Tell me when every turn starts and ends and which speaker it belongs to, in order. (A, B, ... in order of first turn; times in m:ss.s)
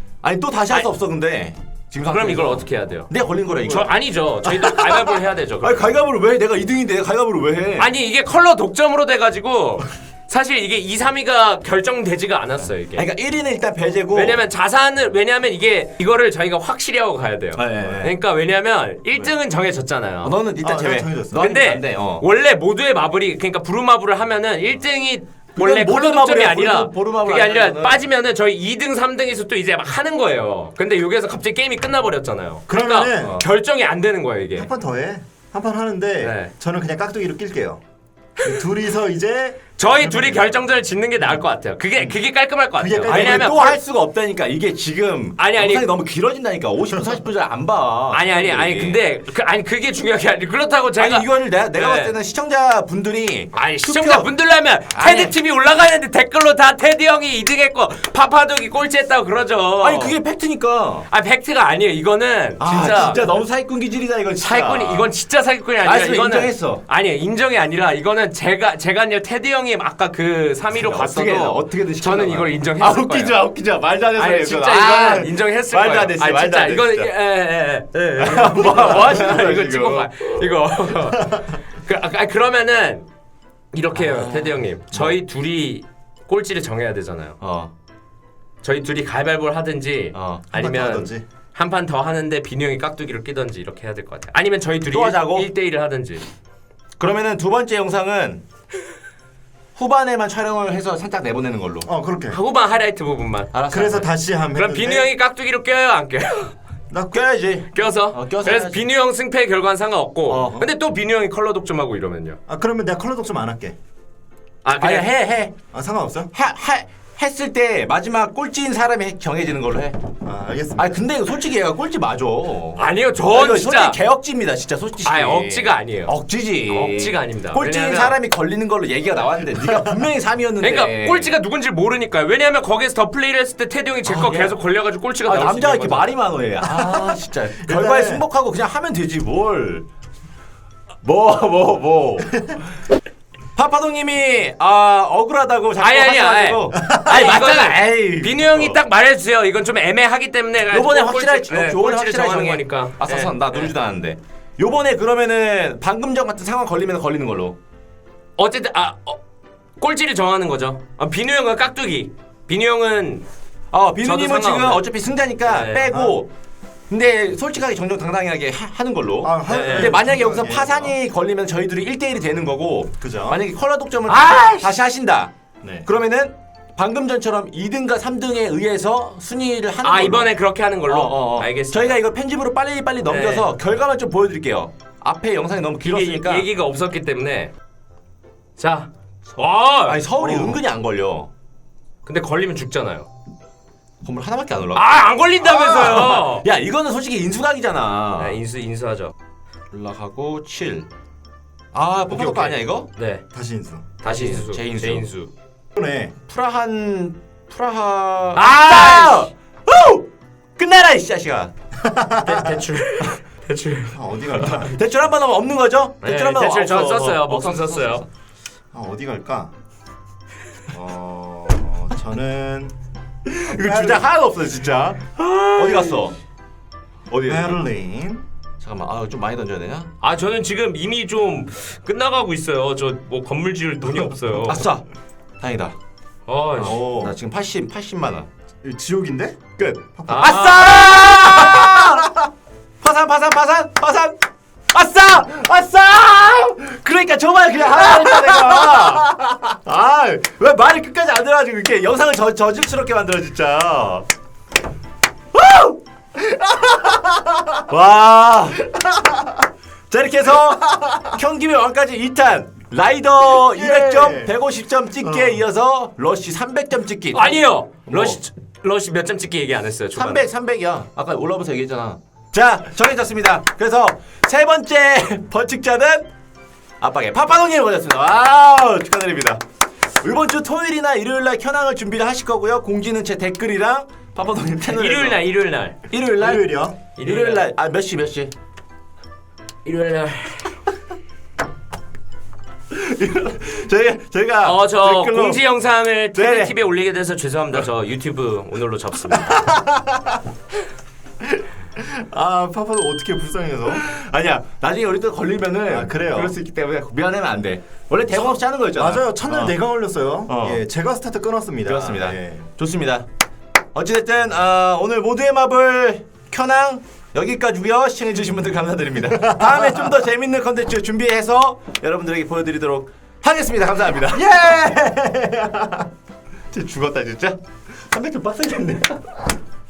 0:00.2-0:04.0 A
0:02.0-0:03.1 B
0:03.6-0:05.9 B
0:05.6-0:07.9 A
0:07.8-0:13.0 B
0:13.0-0:14.4 A
0:14.1-0:20.3 B
0:17.6-0:18.1 A
0:20.2-0:22.2 A
0:20.6-0:21.5 C
0:21.3-0:34.7 B
0:25.6-0:28.0 A
0:32.7-0:33.4 C
0:34.5-0:37.8 C
0:36.2-0:36.5 B
0:38.4-0:40.5 C
0:39.8-0:43.8 B
0:42.8-0:43.5 C
0:43.1-0:49.0 A
0:45.4-0:45.9 B
0:48.1-0:52.1 B
0:51.0-0:54.3 A
0:53.5-1:00.2 B
0:54.9-0:55.3 A
0:59.8-1:01.1 A
1:01.1-1:03.4 B
1:02.6-1:05.1 A
1:04.4-1:13.4 B
1:05.8-1:06.8 A
1:10.7-1:17.1 A
1:14.2-1:23.1 B
1:18.2-1:20.3 A
1:21.1-1:21.4 C
1:23.7-1:27.4 B
1:23.9-1:25.2 A
1:27.4-1:27.7 A
1:28.6-1:36.3 B
1:30.1-1:30.4 A
1:30.5-1:31.2 C
1:34.9-1:35.5 A
1:37.0-1:38.4 A
1:39.8-1:41.9 A
1:41.8-1:42.4 C
1:42.3-1:43.5 B
1:43.5-1:44.1 A
1:43.7-1:45.1 C
1:44.5-1:46.5 B
1:46.9-1:47.2 C
1:47.1-1:48.8 A
1:47.7-1:52.4 B
1:50.3-1:50.6 A
1:52.5-1:53.8 C
1:54.6-1:55.1 B
1:54.8-1:55.6 A
1:55.7-1:56.3 C
1:56.3-2:00.0 A
2:00.2-2:01.0 C
2:00.8-2:11.3 A
2:02.8-2:04.0 B
2:05.0-2:06.1 B
2:06.7-2:08.2 B
2:10.6-2:16.1 B
2:14.1-2:14.6 A
2:15.2-2:19.8 A
2:16.6-2:18.2 C
2:21.0-2:22.6 A
2:23.6-2:28.8 A
2:25.8-2:33.7 B
2:26.7-2:27.3 C
2:30.7-2:37.6 A
2:38.4-2:39.2 B
2:39.8-2:43.2 B
2:43.7-2:46.3 A
2:44.0-2:44.8 B
2:45.4-2:45.9 B
2:45.8-2:46.2 C
2:46.9-2:55.3 A
2:49.2-2:51.0 C
2:49.5-2:49.9 B
2:53.0-2:53.4 C
2:54.1-2:54.8 B
2:55.8-3:00.3 A
2:59.8-3:02.0 B
3:00.8-3:06.5 A
3:03.0-3:03.5 B
3:05.8-3:07.5 B
3:08.6-3:10.5 B
3:09.2-3:11.3 A
3:10.2-3:10.5 C
3:12.0-3:13.1 B
3:14.0-3:14.8 A
3:14.8-3:16.4 B
3:15.4-3:18.4 A
3:18.2-3:19.1 B
3:19.7-3:20.9 A
3:21.7-3:22.9 A
3:22.1-3:23.2 B
3:23.3-3:24.0 C
3:24.0-3:25.3 B
3:24.0-3:25.1 A
3:25.8-3:26.1 C
3:26.3-3:30.0 A
3:28.3-3:29.3 B
3:30.6-3:31.5 A
3:31.8-3:32.8 C
3:32.2-3:34.4 B
3:33.9-3:34.8 C
3:34.3-3:38.1 A
3:36.0-3:38.0 B
3:38.7-3:39.5 C
3:40.7-3:42.7 C
3:43.2-3:46.2 A
3:43.4-3:44.0 C
3:45.2-3:46.0 B
3:47.1-3:47.6 A
3:47.3-3:48.2 C
3:48.6-3:49.9 A
3:50.0-3:54.6 B
3:54.5-3:54.8 A
3:55.4-3:55.7 A
3:56.3-3:56.8 B
3:56.6-3:58.3 A
3:56.7-3:57.1 C
3:58.6-4:02.3 C
3:59.6-4:02.0 A
4:00.1-4:01.2 B
4:02.8-4:04.2 A
4:04.7-4:09.1 A
4:07.6-4:09.6 C
4:09.6-4:14.0 A
4:15.3-4:15.8 A
4:16.2-4:17.6 C
4:17.7-4:18.6 A
4:18.7-4:19.4 C
4:19.9-4:28.2 A
4:20.5-4:21.2 C
4:23.3-4:24.3 C
4:25.0-4:25.4 C
4:27.1-4:30.2 B
4:30.0-4:36.1 A
4:36.8-4:39.4 A
4:40.0-4:45.2 A
4:44.7-4:45.8 B
4:45.9-4:48.3 A
4:46.2-4:46.8 C
4:47.0-4:47.4 B
4:49.6-4:50.5 B
4:52.7-4:55.4 A
4:54.4-4:59.4 B
4:56.1-4:56.5 A
4:59.1-5:00.2 C
5:01.2-5:03.8 C
5:03.7-5:09.6 A
5:05.7-5:06.3 C
5:08.8-5:12.5 C
5:10.3-5:10.6 A
5:11.6-5:13.1 A
5:13.7-5:24.3 A
5:19.1-5:20.0 C
5:24.1-5:25.9 C
5:26.5-5:29.1 A